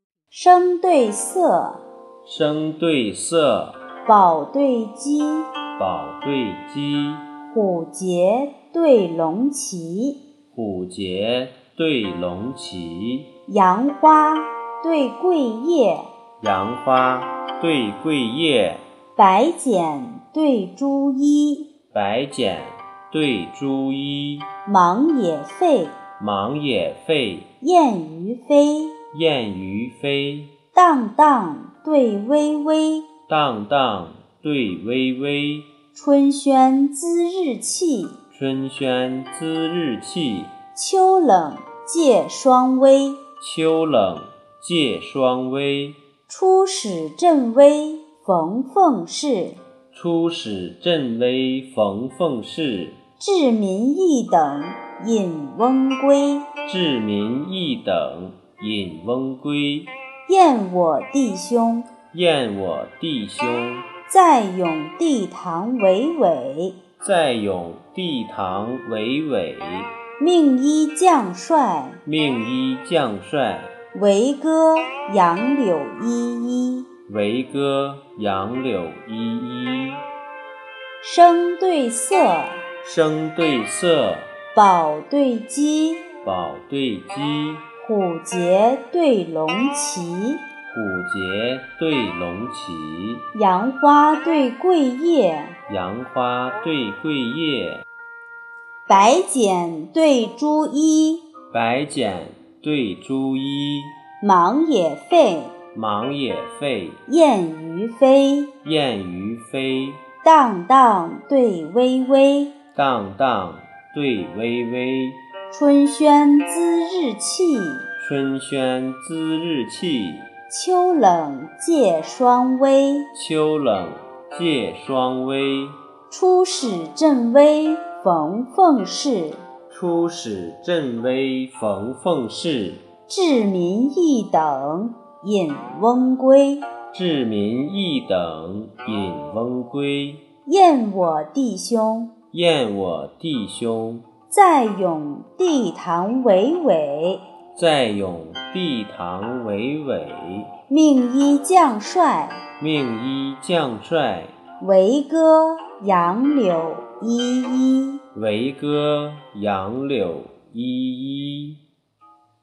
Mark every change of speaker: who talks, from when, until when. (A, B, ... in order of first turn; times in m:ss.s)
0:00.3-0:01.8 A
0:02.2-0:03.8 B
0:04.0-0:05.5 A
0:05.8-0:07.3 B
0:07.5-0:10.2 A
0:10.5-0:13.3 B
0:13.5-0:16.1 A
0:16.4-0:18.8 B
0:19.1-0:21.7 A
0:21.9-0:24.5 B
0:24.6-0:25.9 A
0:26.2-0:27.5 B
0:27.6-0:29.0 A
0:29.1-0:30.5 B
0:30.7-0:33.1 A
0:33.3-0:35.7 B
0:35.9-0:38.2 A
0:38.3-0:40.5 B
0:40.7-0:43.2 A
0:43.4-0:46.0 B
0:46.3-0:49.6 A
0:49.9-0:53.0 B
0:53.2-0:56.5 A
0:56.6-0:59.9 B
1:00.3-1:01.9 A
1:02.1-1:03.9 B
1:04.1-1:06.8 A
1:07.0-1:09.9 B
1:10.2-1:12.0 A
1:12.0-1:13.7 B
1:13.9-1:16.9 A
1:17.1-1:20.0 B
1:21.0-1:22.6 A
1:22.8-1:24.3 B
1:24.5-1:26.1 A
1:26.2-1:27.6 B
1:27.8-1:30.4 A
1:30.7-1:33.3 B
1:33.3-1:35.6 A
1:35.7-1:37.8 B
1:38.9-1:41.3 A
1:41.5-1:43.9 B
1:44.2-1:45.5 A
1:45.7-1:47.0 B
1:47.0-1:48.5 A
1:48.6-1:50.0 B
1:50.2-1:52.5 A
1:52.7-1:55.2 B
1:55.5-1:57.9 A
1:58.0-2:00.3 B
2:00.5-2:03.1 A
2:03.1-2:05.8 B
2:06.1-2:09.4 A
2:09.7-2:12.8 B
2:13.1-2:16.6 A
2:16.9-2:20.2 B
2:20.4-2:22.1 A
2:22.3-2:24.0 B
2:24.3-2:27.2 A
2:27.5-2:30.5 B
2:30.7-2:32.4 A
2:32.6-2:34.3 B
2:34.6-2:38.0 A
2:38.1-2:41.6 B